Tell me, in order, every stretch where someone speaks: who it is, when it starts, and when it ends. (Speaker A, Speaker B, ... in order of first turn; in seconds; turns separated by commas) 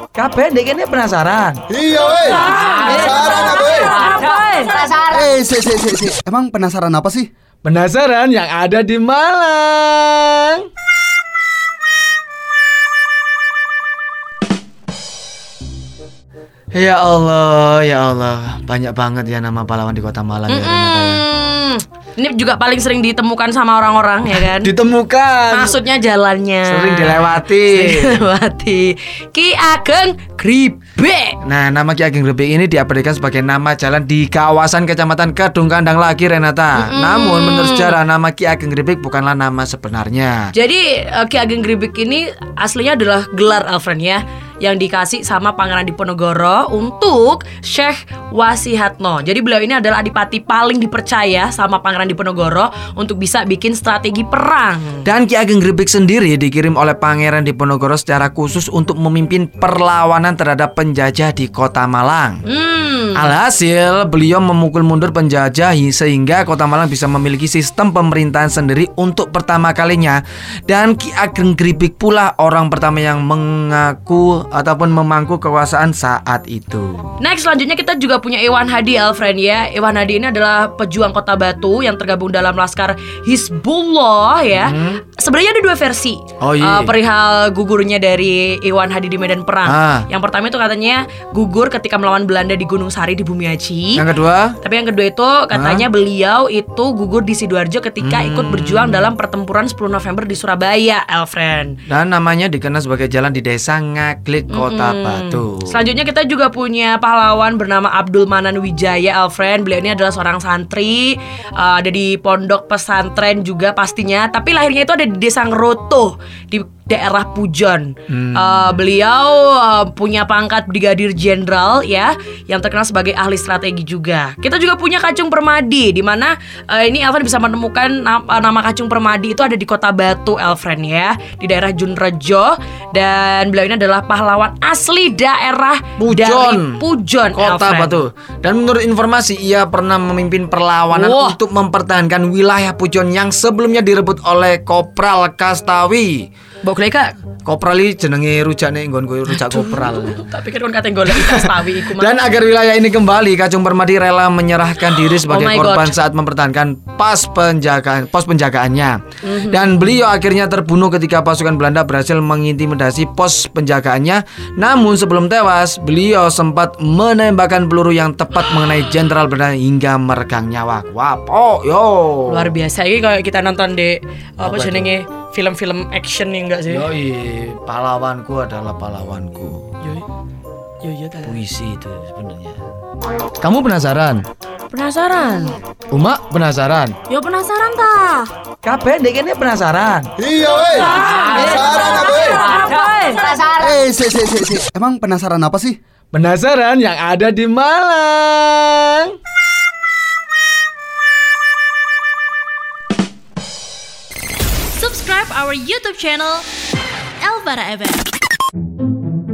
Speaker A: 0.1-1.6, Speaker B: 2.2-4.9, Speaker C: 5.0-7.3, Speaker A: 7.6-10.6, Speaker A: 16.7-21.2, Speaker B: 20.5-24.7, Speaker A: 24.4-25.8, Speaker B: 25.5-31.4, Speaker A: 26.7-28.3, Speaker A: 31.4-40.5, Speaker B: 36.8-38.0, Speaker B: 40.5-55.1, Speaker A: 55.0-62.4, Speaker B: 62.5-63.3, Speaker A: 63.2-77.1, Speaker B: 77.2-94.0, Speaker A: 84.5-85.0, Speaker A: 86.4-86.9, Speaker A: 89.7-90.1, Speaker A: 94.0-94.6, Speaker B: 94.6-101.8, Speaker A: 95.5-95.8, Speaker A: 98.0-99.1, Speaker A: 101.9-105.8, Speaker B: 104.5-138.0, Speaker A: 118.1-118.8, Speaker A: 136.0-136.8, Speaker A: 137.3-146.3, Speaker B: 140.9-141.4, Speaker B: 146.6-147.1, Speaker A: 147.5-150.2, Speaker B: 149.3-152.2, Speaker A: 151.1-172.5, Speaker B: 155.2-155.9, Speaker B: 159.2-160.0, Speaker B: 172.3-176.9, Speaker A: 174.4-174.9, Speaker A: 176.7-179.6, Speaker B: 180.8-181.3, Speaker A: 181.3-182.6, Speaker A: 183.4-184.2, Speaker B: 184.7-185.6, Speaker A: 185.9-187.0, Speaker B: 187.1-188.3, Speaker A: 188.6-190.1, Speaker C: 190.4-190.8, Speaker B: 191.3-193.4, Speaker C: 193.5-195.8, Speaker A: 196.1-199.1, Speaker D: 204.8-206.5, Speaker D: 207.2-208.1